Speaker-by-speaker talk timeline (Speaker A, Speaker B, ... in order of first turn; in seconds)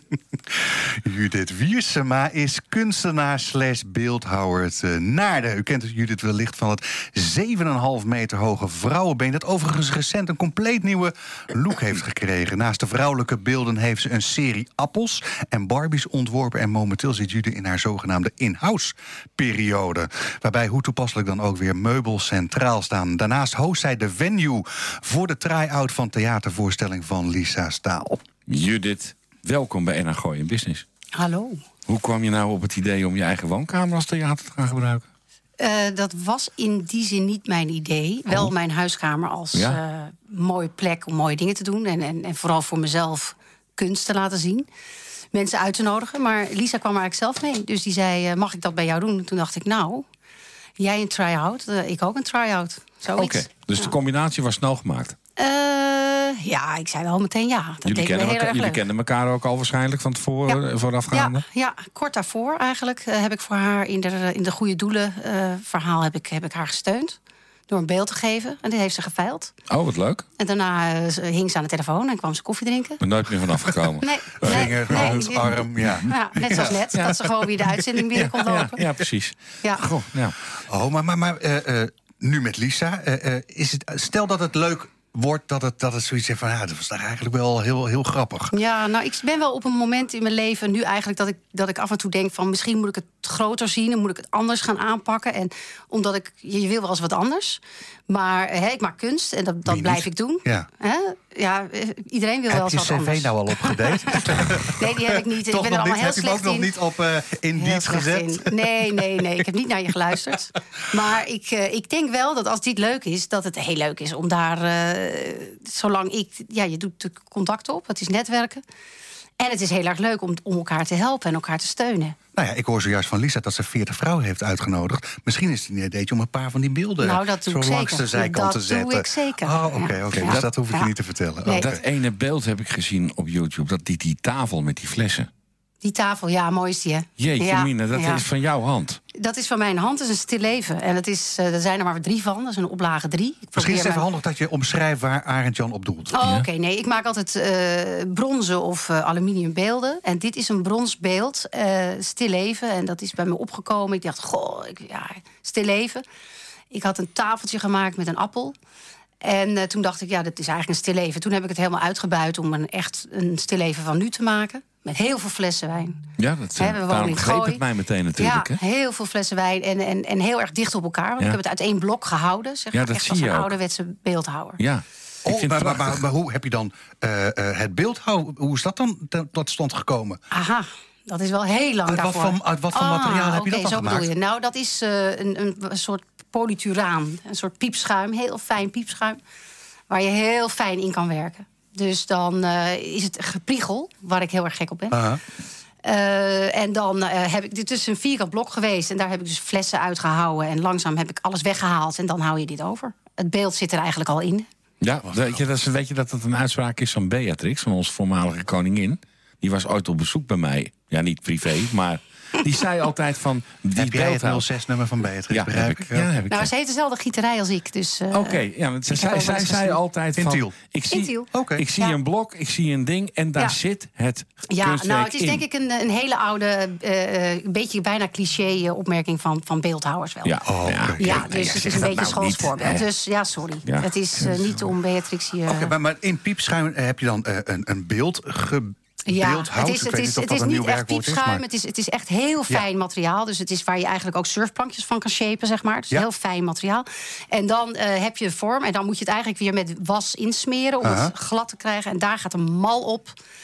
Speaker A: 0.3-28.2, 74.4-77.1, 80.7-88.5, 99.7-100.7, 102.5-108.8, 122.3-131.8, 143.5-146.1, 175.2-180.2, 181.9-184.1, 194.9-195.2, 205.1-205.4, 213.8-216.2, 220.2-220.5, 221.3-221.6, 230.4-231.3, 235.4-241.4, 250.8-251.1
Speaker B: 28.5-30.8, 31.9-35.0, 39.5-39.8, 53.1-55.1, 57.8-61.4, 69.7-70.2, 73.0-76.1, 78.1-80.4, 130.2-130.4, 131.5-135.3, 137.2-139.0, 146.2-146.5, 166.2-168.6, 172.7-173.6, 174.6-176.0, 204.8-214.4, 215.3-216.5, 218.1-225.4, 230.2-232.9, 233.6-234.6
Speaker C: 31.2-31.5, 35.6-39.8, 40.3-43.2, 43.8-44.6, 45.4-50.0, 50.8-53.3, 55.4-58.8, 61.1-67.1, 67.7-69.5, 70.4-72.9, 74.0-75.4, 76.1-78.8, 88.5-97.6, 98.1-104.2, 104.8-106.7, 107.6-118.6, 119.4-122.1, 127.0-130.9, 135.8-138.2, 139.1-144.0, 146.1-156.0, 156.7-158.5, 159.2-166.0, 166.6-167.6, 168.2-174.6, 180.3-189.2, 189.9-195.0, 195.8-204.4, 216.3-219.8, 220.9-222.0, 224.5-230.3, 231.0-235.7, 239.1-253.1